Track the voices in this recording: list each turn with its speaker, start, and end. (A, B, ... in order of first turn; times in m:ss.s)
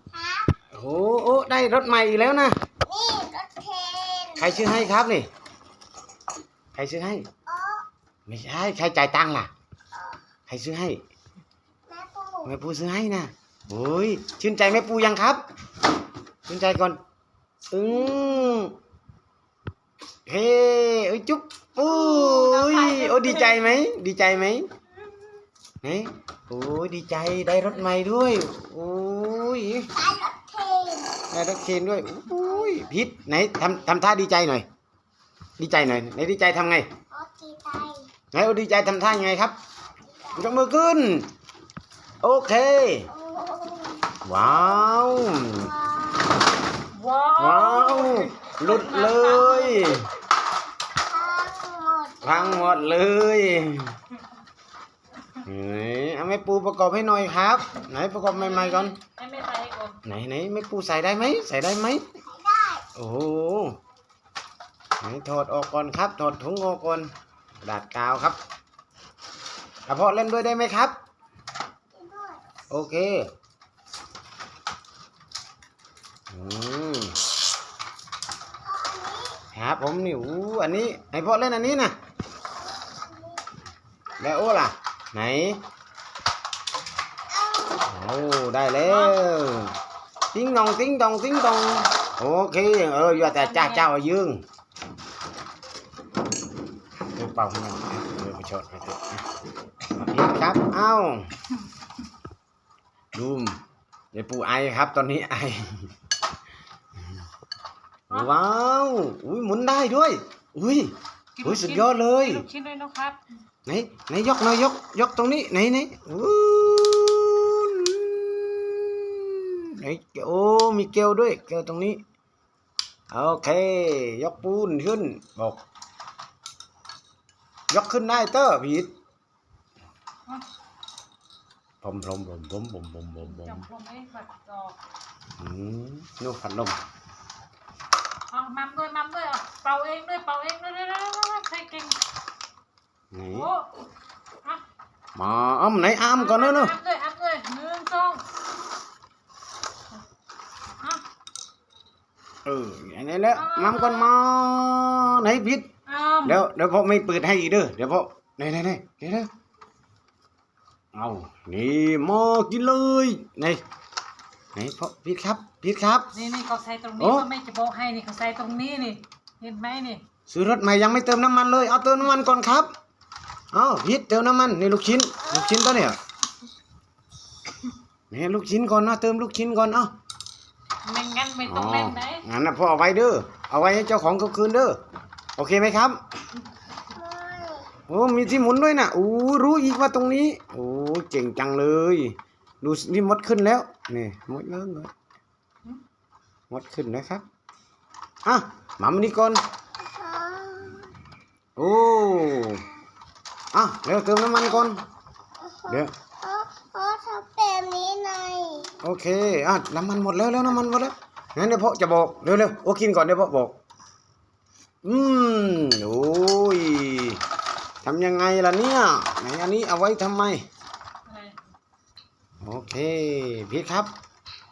0:00.1-0:00.4 A
0:00.7-0:02.6 B
0:02.8-0:04.6 A
0:04.4-0:05.3 B
0:06.7-0:07.2 B
0:07.5-0:07.8 A
0:08.3-0:09.5 B
0:10.5-0:11.0 B
0:11.9-0:12.5 A
0:12.4-0:15.4 B
0:16.5-0:17.0 B
0:17.7-0:18.7 B
0:20.2-0:24.7 B
0:22.0-0:23.7 C
0:25.8-0:29.9 B
0:30.0-0:31.2 A
0:31.3-0:34.6 B
0:35.6-0:36.9 B
0:37.1-0:38.1 A
0:38.3-0:39.5 B
0:40.3-0:41.3 B
0:42.2-0:43.1 B
0:43.1-0:44.9 A
0:44.2-0:45.7 B
0:45.5-0:46.4 A
0:46.9-0:49.9 C
0:47.4-0:50.1 B
0:50.9-0:52.9 A
0:52.2-0:53.9 B
0:55.4-0:59.0 B
0:58.3-1:00.0 C
1:00.0-1:02.0 B
1:02.3-1:02.8 A
1:02.9-1:03.8 B
1:05.0-1:08.4 B
1:09.9-1:10.9 B
1:11.9-1:12.4 A
1:12.7-1:13.3 B
1:16.3-1:17.2 B
1:18.6-1:19.4 A
1:19.5-1:21.9 B
1:22.8-1:23.4 A
1:24.2-1:25.6 B
1:27.3-1:27.8 A
1:27.8-1:29.8 B
1:28.8-1:29.3 C
1:30.3-1:34.4 B
1:33.1-1:33.9 C
1:37.1-1:39.2 B
1:39.9-1:41.3 B
1:43.1-1:43.6 B
1:44.1-1:45.8 B
1:48.1-1:52.4 B
1:51.4-1:53.2 C
1:53.6-2:02.0 B
2:03.1-2:05.6 B
2:07.7-2:08.9 B
2:11.8-2:13.6 B
2:13.2-2:14.8 C
2:15.4-2:16.8 B
2:18.3-2:22.0 C
2:23.1-2:23.5 B
2:23.3-2:23.7 C
2:25.1-2:26.7 B
2:26.1-2:28.2 C
2:32.4-2:35.7 B
2:33.3-2:34.1 C
2:35.9-2:36.4 C
2:36.2-2:39.3 B
2:40.9-2:43.6 B
2:44.5-2:46.1 B
2:46.1-2:50.0 C
2:47.0-2:47.2 B
2:50.3-2:52.7 B
2:53.5-2:56.0 B
2:58.1-2:59.9 B
3:00.8-3:02.2 C
3:01.4-3:04.8 B
3:05.4-3:06.0 B
3:06.9-3:07.7 A
3:07.9-3:14.9 B
3:16.5-3:17.2 B
3:18.2-3:19.4 B
3:19.8-3:20.9 A
3:21.6-3:22.6 B
3:23.5-3:24.8 B
3:25.4-3:28.7 A
3:25.7-3:25.9 B
3:28.8-3:33.6 B
3:34.8-3:37.2 B
3:37.8-3:40.4 B
3:41.0-3:41.4 C
3:42.4-3:43.9 B